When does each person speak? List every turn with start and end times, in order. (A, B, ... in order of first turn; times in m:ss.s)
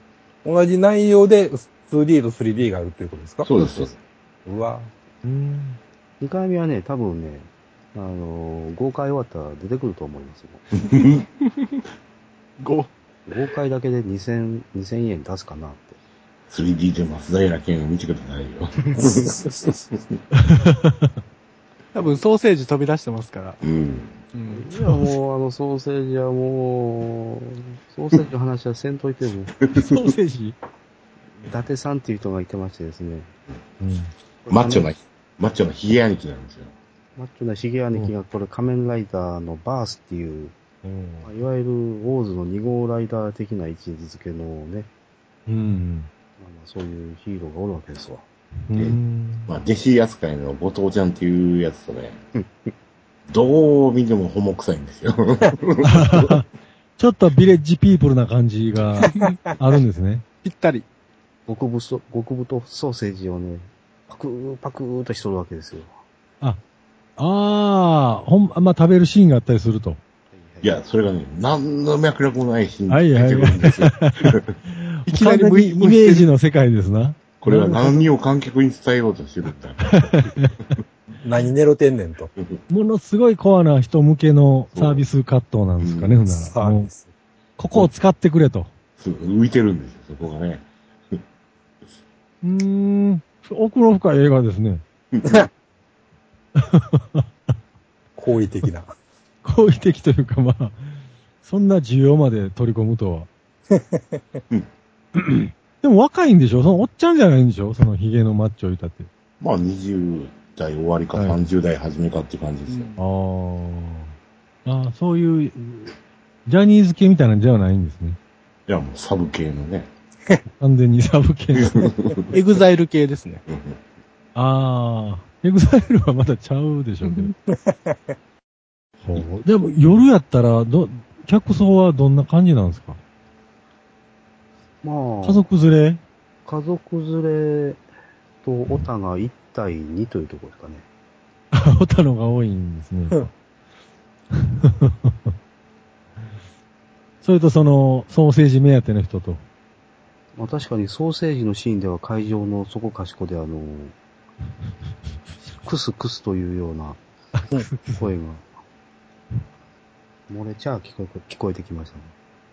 0:00.4-0:03.5 A
0:03.4-0:04.0 B
0:04.4-0:04.9 A
0:05.2-0:05.8 C
0:06.2-0:10.6 D
0:10.8-0:11.2 B
0:12.6-0:12.9 E
0:13.3-0:16.0 D
0:16.5-0:19.4 B
0:19.0-0:19.7 A
0:19.9-0:20.2 B
0:20.4-0:21.1 C
0:21.9-0:23.6 E
0:23.6-0:24.2 B
0:24.3-0:24.7 E
0:24.5-0:29.5 D
0:29.6-0:30.2 B
0:29.7-0:30.6 C
0:31.5-0:33.3 D
0:33.8-0:34.1 C
0:34.4-0:34.9 D
0:34.5-0:36.7 B
0:37.2-0:40.5 D
0:40.8-0:41.3 C
0:41.2-0:44.9 D
0:45.5-0:46.1 C
0:46.4-0:48.2 D
0:48.7-0:49.5 C
0:48.7-0:52.2 B
0:53.3-0:56.4 B
0:55.8-0:56.4 C
0:57.0-1:00.2 C
0:59.0-0:59.6 A
0:59.1-0:59.4 E
1:00.4-1:00.9 E
1:01.5-1:06.0 D
1:07.2-1:10.0 C
1:10.3-1:10.8 D
1:10.6-1:14.6 B
1:12.9-1:18.1 C
1:15.0-1:16.3 E
1:17.4-1:20.8 B
1:19.9-1:20.5 C
1:21.2-1:22.3 A
1:22.7-1:26.9 C
1:24.7-1:25.0 B
1:25.8-1:26.2 B
1:26.3-1:27.1 A
1:27.6-1:28.7 C
1:29.0-1:31.2 B
1:32.4-1:34.8 C
1:35.1-1:35.4 B
1:36.6-1:37.2 C
1:38.2-1:38.9 A
1:39.4-1:40.8 C
1:41.4-1:43.3 C
1:43.7-1:44.4 A
1:45.8-1:49.1 C
1:49.4-1:52.9 B
1:52.7-1:53.0 E
1:53.0-1:55.9 C
1:56.4-1:58.2 C
1:58.7-1:59.9 B
2:00.6-2:01.9 C
2:01.5-2:02.4 B
2:02.3-2:03.4 E
2:03.5-2:03.8 B
2:04.3-2:07.3 C
2:07.5-2:08.0 A
2:09.0-2:13.0 C
2:14.8-2:15.4 D
2:15.2-2:16.0 C
2:16.4-2:17.8 D
2:18.4-2:20.8 D
2:21.5-2:23.3 C
2:24.3-2:25.1 C
2:27.2-2:29.4 C
2:30.4-2:33.9 D
2:35.4-2:37.0 D
2:37.4-2:38.1 C
2:37.9-2:38.4 D
2:40.3-2:42.1 D